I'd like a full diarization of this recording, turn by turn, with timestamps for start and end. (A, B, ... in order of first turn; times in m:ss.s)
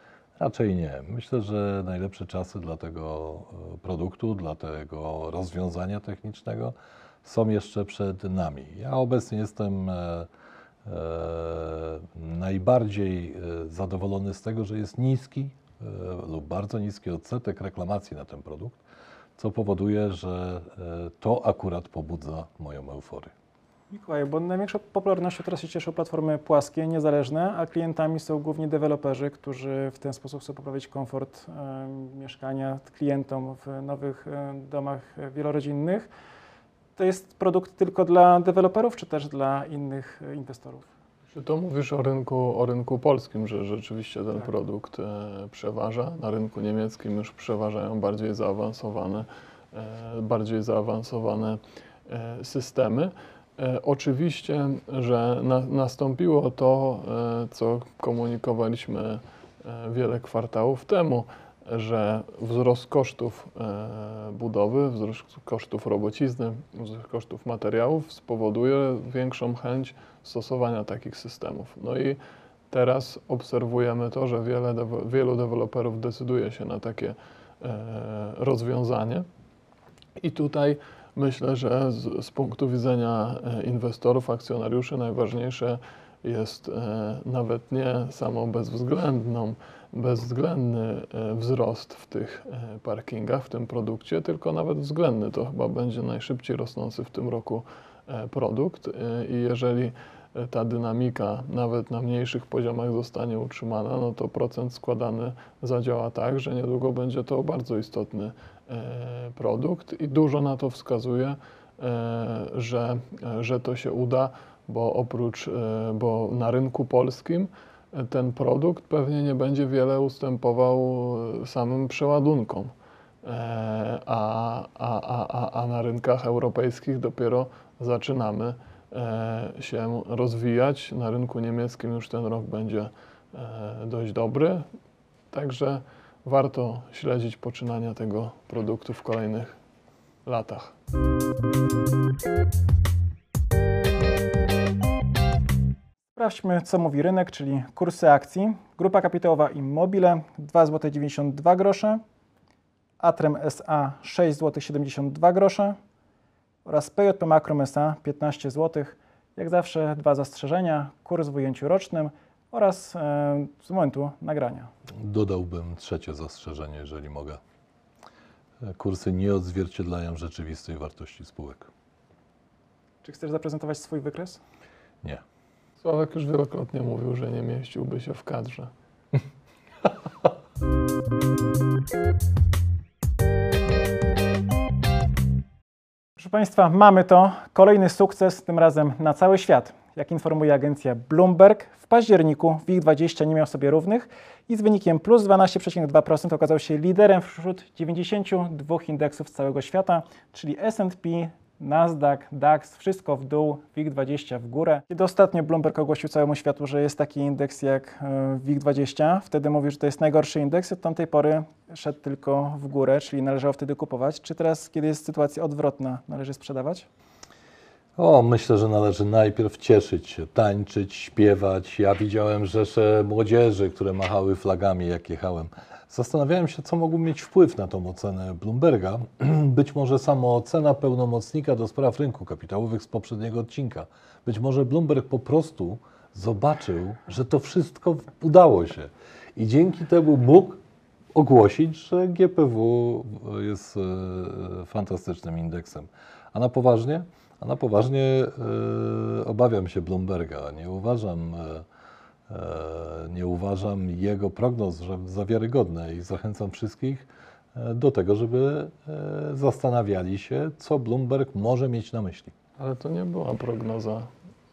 0:00.4-0:10.3 A
0:10.8-0:18.8 A
0:19.4-0:23.3 A
0:23.9-0:36.1 B
0:37.0-0:40.9 B
0:41.3-1:12.2 C
1:12.7-1:19.2 C
1:20.2-2:02.7 C
2:03.2-2:14.6 C
2:15.3-2:19.5 C
2:20.2-2:20.7 C
2:26.1-2:32.0 B
2:33.0-2:35.8 B
2:36.6-2:44.7 B
2:45.0-2:47.4 A
2:48.6-2:51.7 A
2:53.0-2:54.4 B
2:55.8-2:58.7 C
3:06.2-3:36.9 B
3:38.0-4:00.6 A
4:01.1-4:11.6 A
4:12.3-4:22.3 A
4:22.6-4:24.1 C